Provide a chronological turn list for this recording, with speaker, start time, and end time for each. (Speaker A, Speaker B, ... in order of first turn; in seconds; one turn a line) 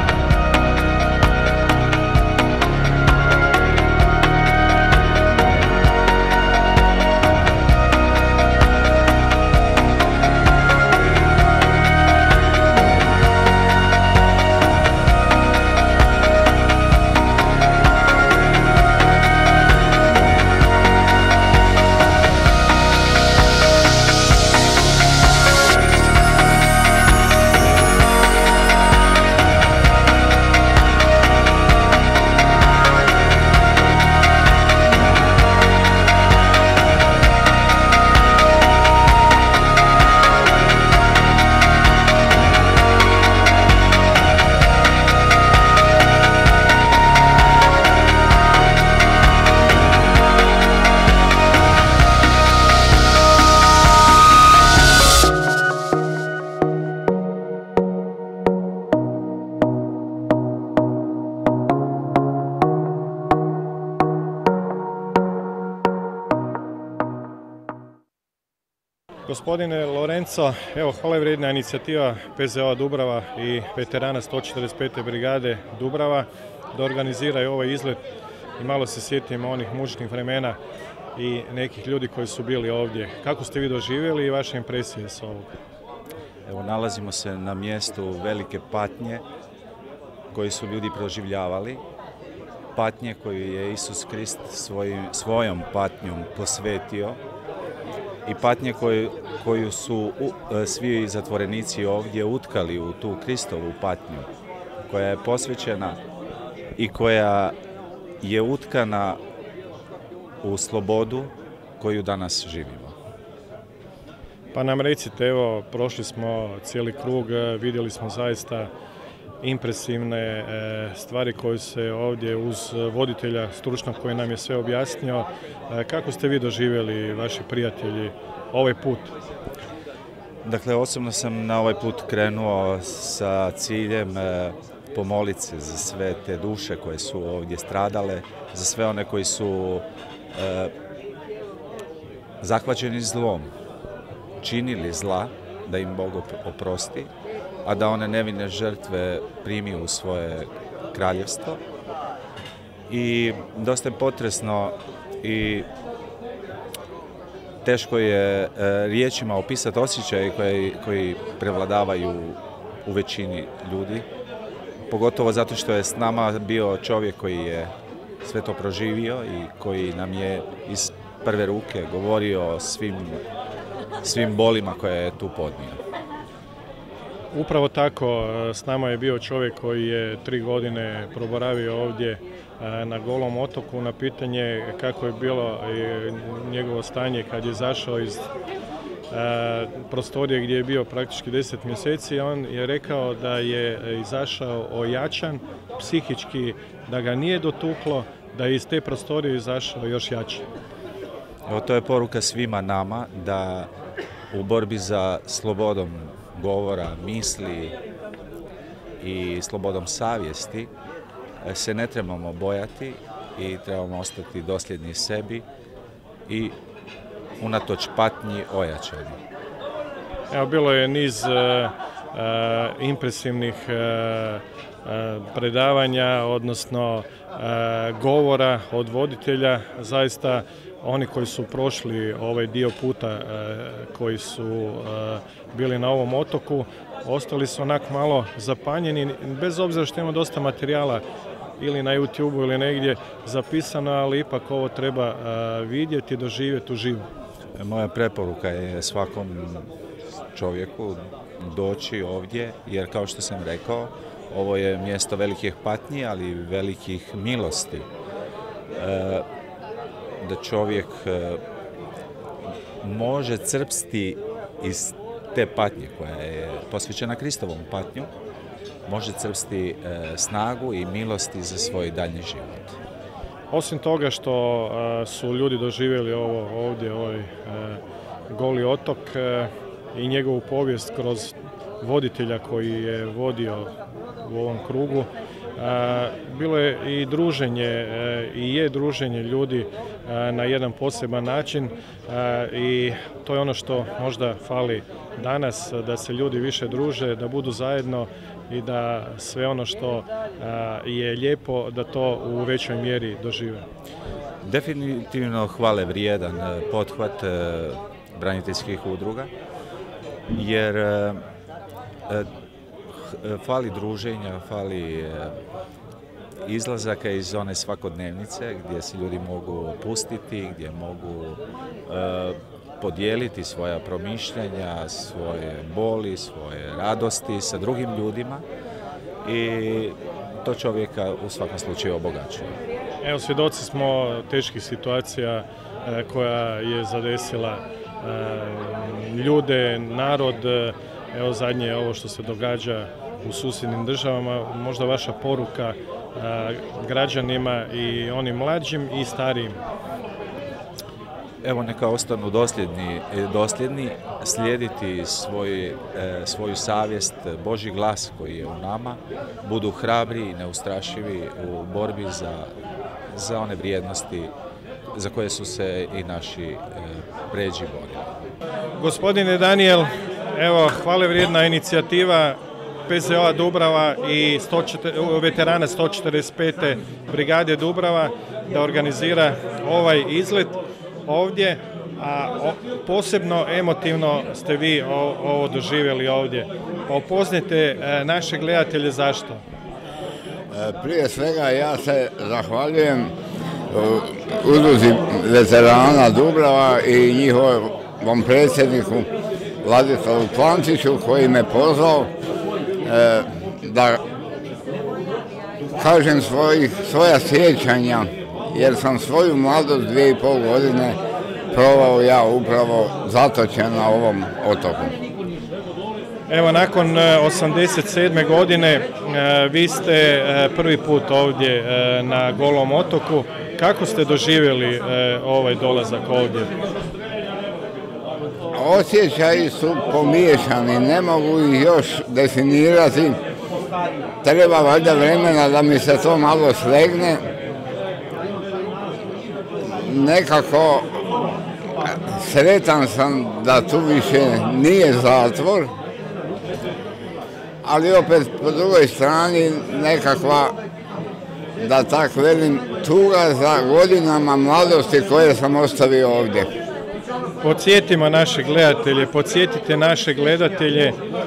Speaker A: 69.3-78.0
Speaker A: 78.6-80.6
Speaker A: 81.2-85.5
Speaker B: 86.5-89.2
Speaker B: 90.3-91.8
Speaker B: 92.7-97.2
Speaker B: 98.2-104.3
Speaker B: 104.9-106.0
Speaker B: 106.8-107.5
Speaker B: 108.2-109.2
Speaker B: 110.4-112.9
Speaker A: 114.5-118.7
Speaker A: 119.4-129.1
Speaker B: 130.4-140.7
Speaker B: 142.4-143.5
Speaker B: 144.4-147.1
Speaker B: 147.6-151.6
Speaker B: 152.9-155.7
Speaker B: 157.6-164.0
Speaker B: 164.9-167.7
Speaker B: 168.2-173.2
Speaker B: 174.0-175.8
Speaker A: 177.3-188.2
Speaker A: 189.1-200.4
Speaker B: 201.5-203.7
Speaker B: 204.3-207.7
Speaker B: 209.0-210.7
Speaker B: 211.4-215.4
Speaker B: 216.3-216.5
Speaker B: 217.4-219.2
Speaker A: 220.3-241.0
Speaker A: 241.6-247.0
Speaker B: 247.6-249.7
Speaker B: 250.3-257.9
Speaker B: 258.7-259.2
Speaker B: 260.2-261.4
Speaker B: 262.8-268.1
Speaker B: 268.9-272.7
Speaker A: 273.5-303.6
Speaker B: 304.4-309.3
Speaker B: 310.3-311.2
Speaker B: 313.2-315.3
Speaker B: 316.4-328.4
Speaker B: 329.2-332.6
Speaker A: 333.0-349.6
Speaker B: 351.4-362.5
Speaker B: 363.1-364.3
Speaker B: 364.9-368.1
Speaker A: 368.8-389.4
Speaker C: 390.5-393.1
Speaker C: 393.7-399.1
Speaker C: 399.6-402.1
Speaker C: 402.8-404.0
Speaker C: 405.8-411.0
Speaker C: 411.5-414.9
Speaker A: 416.3-426.5
Speaker C: 428.5-433.2
Speaker C: 434.2-437.2
Speaker C: 439.6-440.9
Speaker C: 441.9-445.7
Speaker C: 447.6-450.5
Speaker C: 451.6-456.5
Speaker A: 457.4-461.0